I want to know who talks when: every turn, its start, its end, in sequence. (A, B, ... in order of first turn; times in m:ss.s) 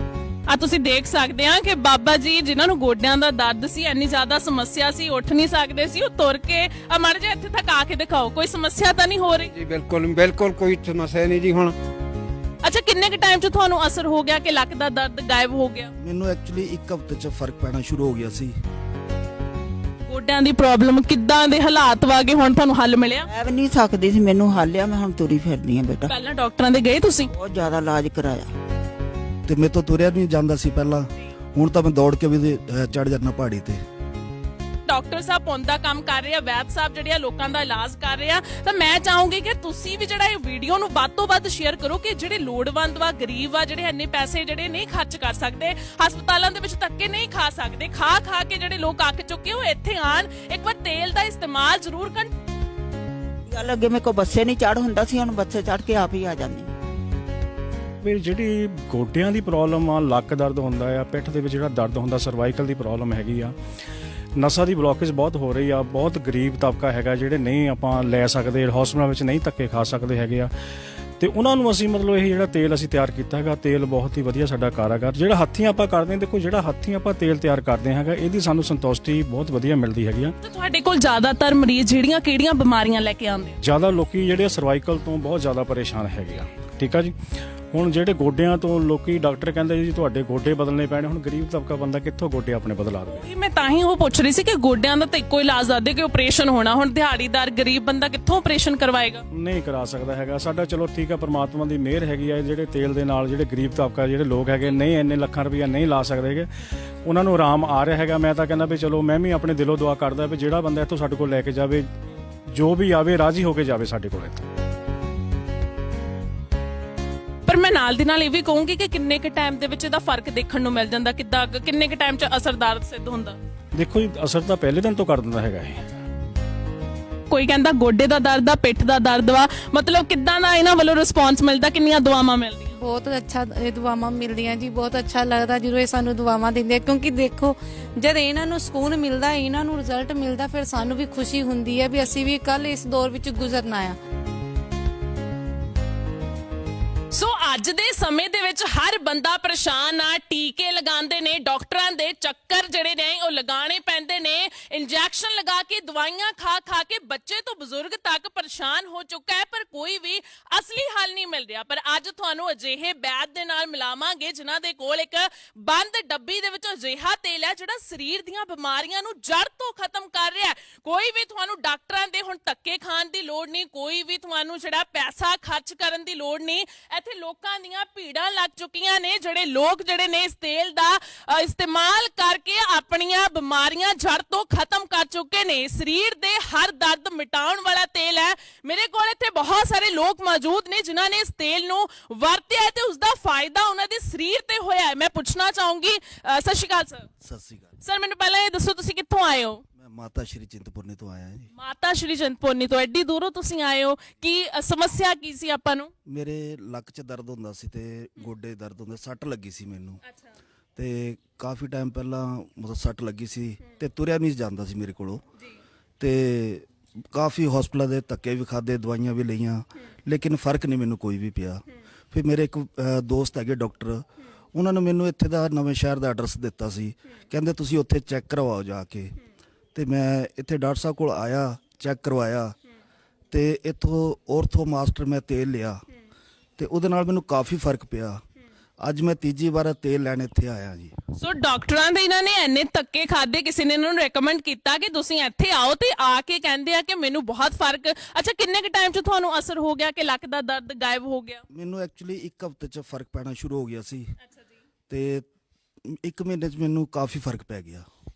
0:00.5-0:09.5 A
0:09.5-0:11.7 B
0:12.6-0:15.9 A
0:16.0-0:18.5 C
0:20.1-0:23.3 A
0:23.2-0:26.1 D
0:26.1-0:27.3 A
0:27.3-0:28.5 D
0:29.4-0:33.8 C
0:34.9-0:52.3 A
0:53.5-0:56.7 D
0:58.0-1:03.5 E
1:04.4-1:10.5 E
1:11.2-1:20.3 E
1:20.4-1:23.6 A
1:23.6-1:27.1 E
1:27.7-1:33.2 E
1:33.1-1:39.2 A
1:39.3-1:51.9 E
1:52.5-1:54.4 E
1:57.4-2:03.4 A
2:03.7-2:05.9 E
2:07.3-2:12.7 A
2:12.8-2:24.0 F
2:27.1-3:17.1 A
3:17.2-3:17.8 C
3:17.8-3:19.6 A
3:19.8-3:21.5 C
3:21.5-3:25.9 A
3:26.0-3:30.0 C
3:30.8-3:35.2 C
3:36.0-3:49.2 C
3:49.7-3:52.5 C
3:53.3-3:55.8 C
3:56.6-3:58.2 C
3:58.8-4:00.9 C
4:01.2-4:11.4 A
4:11.5-4:14.1 C
4:14.9-4:15.3 C
4:15.9-4:17.8 C